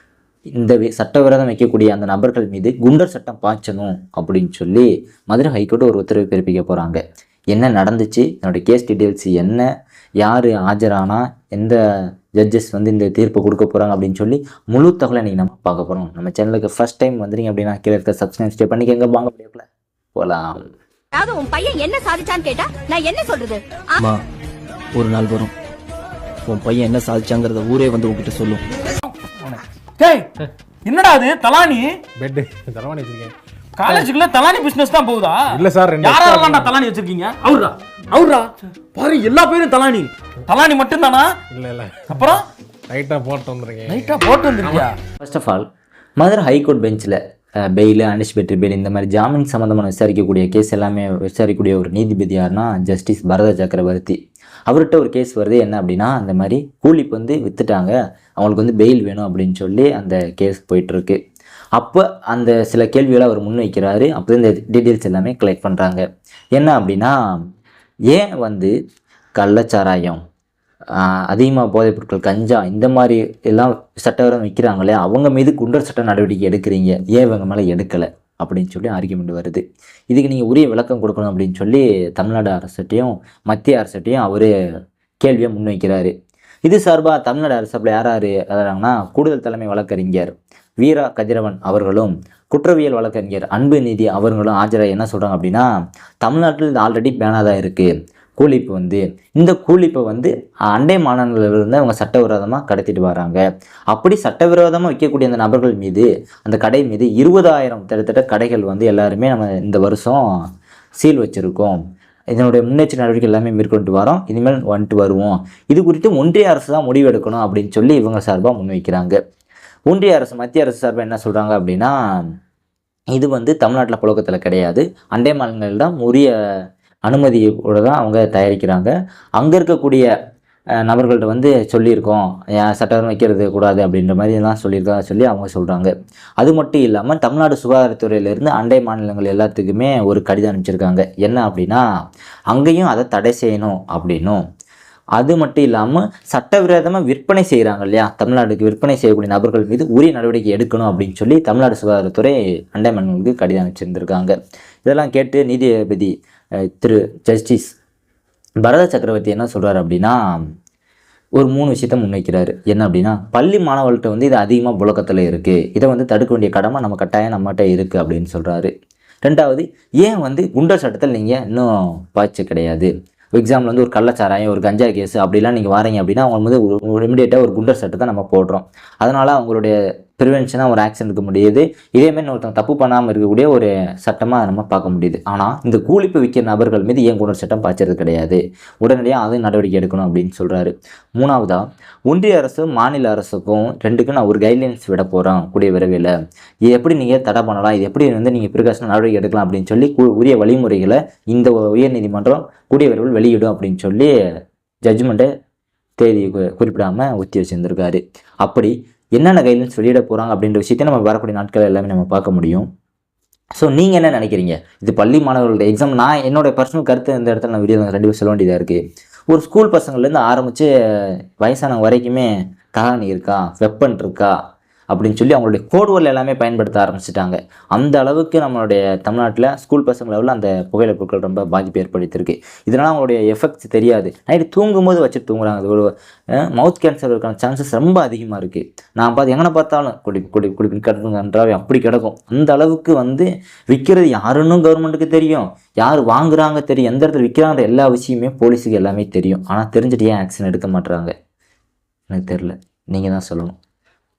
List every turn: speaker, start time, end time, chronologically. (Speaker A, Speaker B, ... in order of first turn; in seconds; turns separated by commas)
Speaker A: 0.6-7.0, Speaker A: 7.5-9.7, Speaker A: 10.2-11.8, Speaker A: 12.4-20.7, Speaker B: 21.1-24.0, Speaker C: 24.9-25.5, Speaker C: 26.4-28.6, Speaker D: 30.0-30.3, Speaker D: 30.9-32.0, Speaker E: 32.2-33.3, Speaker D: 33.8-41.3, Speaker E: 35.5-36.7, Speaker E: 41.5-42.1, Speaker D: 42.1-42.4, Speaker E: 42.9-44.2, Speaker D: 43.9-45.0, Speaker A: 45.2-45.7, Speaker A: 46.2-54.2, Speaker A: 54.7-61.2, Speaker A: 61.8-66.0, Speaker A: 66.6-67.2, Speaker A: 68.1-68.7, Speaker A: 69.4-70.2, Speaker A: 71.0-84.5, Speaker A: 85.2-86.1, Speaker A: 86.7-95.7, Speaker A: 96.2-103.4, Speaker A: 103.9-110.2, Speaker A: 111.0-111.8, Speaker A: 112.3-119.2, Speaker A: 119.9-122.0, Speaker A: 123.1-126.3, Speaker A: 127.1-130.1, Speaker A: 130.8-141.8, Speaker A: 142.5-144.4, Speaker A: 145.2-156.1, Speaker A: 156.7-157.8, Speaker A: 158.6-160.2, Speaker A: 161.4-168.7, Speaker A: 169.2-196.1, Speaker A: 196.7-204.1, Speaker A: 204.9-205.3, Speaker A: 206.0-212.7, Speaker A: 213.6-224.3, Speaker A: 224.9-235.9, Speaker A: 236.5-251.1, Speaker A: 252.1-253.6